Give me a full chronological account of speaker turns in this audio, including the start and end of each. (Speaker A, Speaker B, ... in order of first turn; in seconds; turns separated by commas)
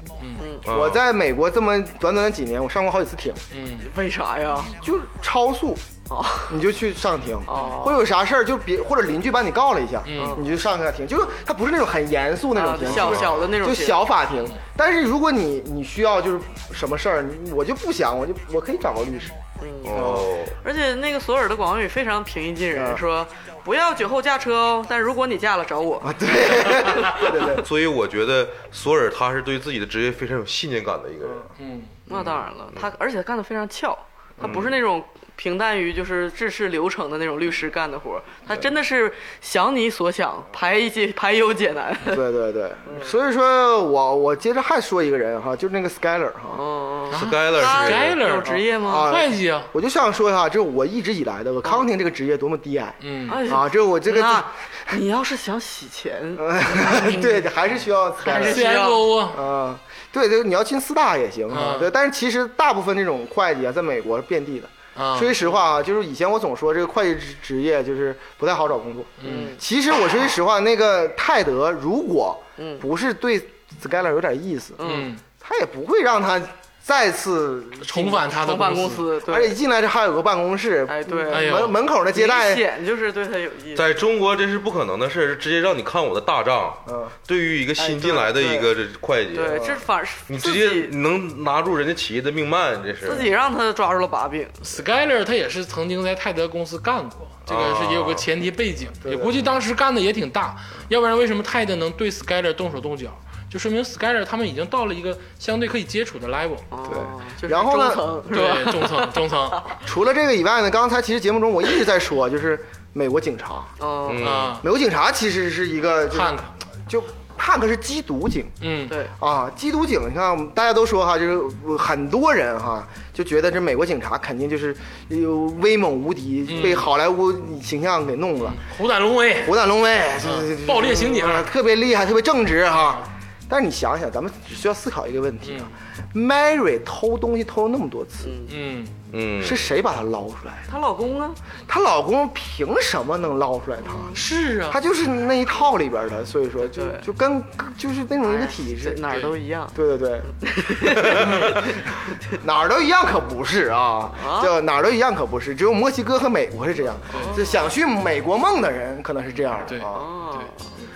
Speaker A: 0.4-0.7, Speaker B: 0.7-1.0, Speaker C: 0.7-3.4, Speaker D: 3.5-3.9, Speaker A: 3.8-4.7, Speaker C: 4.8-5.8, Speaker A: 6.1-6.6, Speaker C: 6.5-19.4, Speaker A: 7.5-8.0, Speaker D: 10.1-10.4, Speaker A: 10.2-10.4, Speaker A: 12.6-14.1, Speaker B: 12.9-13.4, Speaker A: 19.6-27.6, Speaker B: 19.8-20.6, Speaker C: 19.9-20.3, Speaker C: 22.7-23.0, Speaker C: 26.0-27.6, Speaker B: 27.6-31.5, Speaker D: 31.6-31.9, Speaker A: 32.1-42.3, Speaker B: 32.1-32.9, Speaker C: 34.4-34.7, Speaker B: 34.4-34.8, Speaker C: 42.1-46.6, Speaker A: 42.9-43.1, Speaker A: 46.5-49.1, Speaker B: 47.1-48.2, Speaker D: 47.1-49.7, Speaker C: 48.9-54.6, Speaker D: 53.0-53.5, Speaker A: 53.3-57.5, Speaker C: 56.4-58.6, Speaker D: 58.2-59.4, Speaker A: 58.2-59.0, Speaker C: 59.3-74.8, Speaker D: 61.5-61.9, Speaker D: 65.0-65.4, Speaker D: 69.2-69.5, Speaker A: 69.2-69.6, Speaker A: 72.6-72.8, Speaker A: 74.8-75.1, Speaker D: 74.8-75.2, Speaker C: 75.4-78.3, Speaker D: 77.8-79.0, Speaker A: 78.3-79.6, Speaker C: 79.3-82.7, Speaker A: 80.9-83.9, Speaker D: 81.3-81.8, Speaker B: 83.7-89.7, Speaker C: 86.9-87.2, Speaker A: 87.8-88.7, Speaker A: 89.3-91.0, Speaker C: 89.5-89.8, Speaker B: 90.3-93.3, Speaker A: 93.0-94.7, Speaker D: 94.7-106.7, Speaker B: 97.5-98.2, Speaker C: 99.0-99.5, Speaker A: 106.7-109.8, Speaker C: 106.9-108.0, Speaker D: 108.3-109.6, Speaker C: 109.8-113.7, Speaker A: 113.8-114.3, Speaker B: 114.1-114.6, Speaker D: 114.2-114.7, Speaker C: 114.6-118.5, Speaker D: 116.1-116.5, Speaker D: 118.6-118.9, Speaker C: 119.2-128.6, Speaker D: 126.5-126.9, Speaker D: 128.4-129.6, Speaker C: 129.4-138.3, Speaker D: 130.2-131.5, Speaker D: 132.7-133.1, Speaker D: 135.4-135.7, Speaker A: 138.2-138.5, Speaker D: 138.5-138.9, Speaker B: 139.1-139.7, Speaker C: 139.4-140.7, Speaker A: 140.7-141.4, Speaker C: 141.7-149.1, Speaker A: 143.9-144.2, Speaker D: 144.1-144.8, Speaker A: 146.7-147.1, Speaker A: 148.2-149.8, Speaker C: 149.7-150.3, Speaker A: 150.3-151.7, Speaker C: 150.9-151.8, Speaker D: 151.1-151.6, Speaker C: 152.3-160.1, Speaker A: 154.2-154.5, Speaker A: 157.1-157.6, Speaker D: 157.1-157.4, Speaker D: 159.7-160.5, Speaker A: 159.9-160.6